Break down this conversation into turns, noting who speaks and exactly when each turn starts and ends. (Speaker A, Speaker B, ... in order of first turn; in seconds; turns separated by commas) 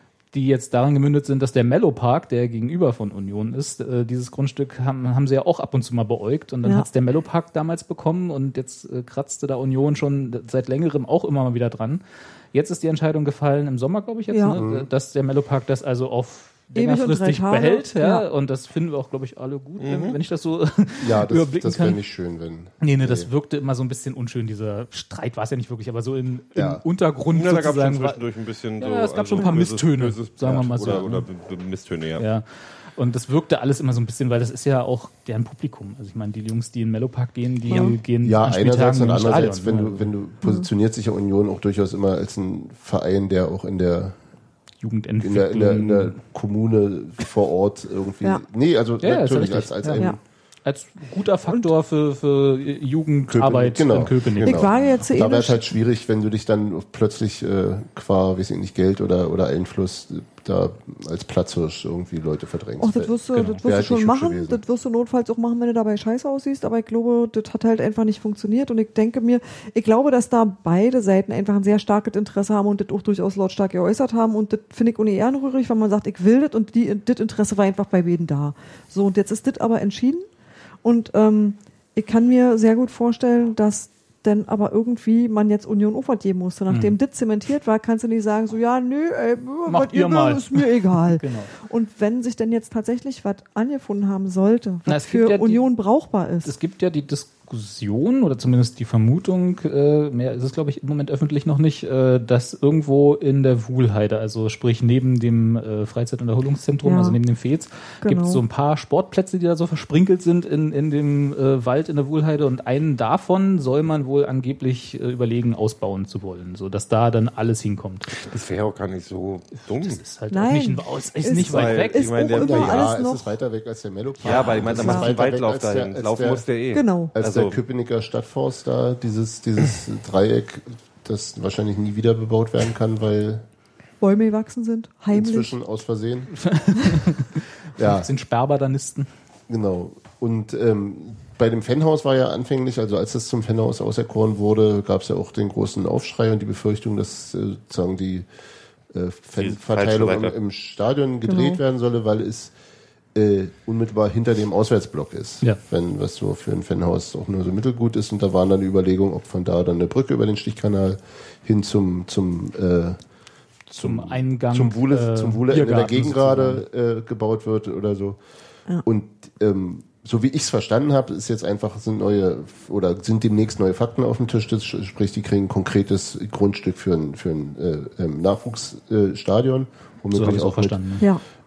Speaker A: 0.3-22.0, Speaker B: 14.3-14.6, Speaker C: 14.5-14.9, Speaker B: 16.8-18.2, Speaker D: 19.8-20.2, Speaker C: 21.0-23.3, Speaker A: 22.8-28.2, Speaker C: 26.6-26.8, Speaker D: 27.3-32.2, Speaker A: 28.8-31.3, Speaker A: 32.2-40.1, Speaker B: 37.7-38.0, Speaker C: 38.2-44.2, Speaker A: 44.8-46.2, Speaker C: 45.2-50.2, Speaker A: 49.0-54.7, Speaker C: 53.3-64.6, Speaker B: 54.4-55.6, Speaker B: 62.8-80.3, Speaker A: 63.3-63.6, Speaker B: 80.8-96.5, Speaker A: 86.7-87.0, Speaker A: 89.7-91.5, Speaker A: 94.9-95.7, Speaker A: 96.4-118.1, Speaker B: 106.8-107.2, Speaker B: 108.0-108.4, Speaker D: 118.2-120.0, Speaker A: 119.7-122.1, Speaker B: 120.3-123.2, Speaker D: 121.4-122.9, Speaker C: 122.4-126.5, Speaker A: 124.2-125.1, Speaker D: 124.2-127.6, Speaker B: 124.8-125.1, Speaker B: 126.7-127.1, Speaker C: 127.1-133.4, Speaker B: 134.0-135.5, Speaker C: 135.1-136.3, Speaker A: 136.3-139.1, Speaker C: 137.8-138.1, Speaker C: 139.5-148.3, Speaker C: 148.9-152.6, Speaker D: 149.4-150.3, Speaker B: 151.3-151.6, Speaker C: 153.2-163.0, Speaker C: 163.7-168.2, Speaker A: 163.8-166.6, Speaker C: 168.8-181.0, Speaker A: 180.1-181.1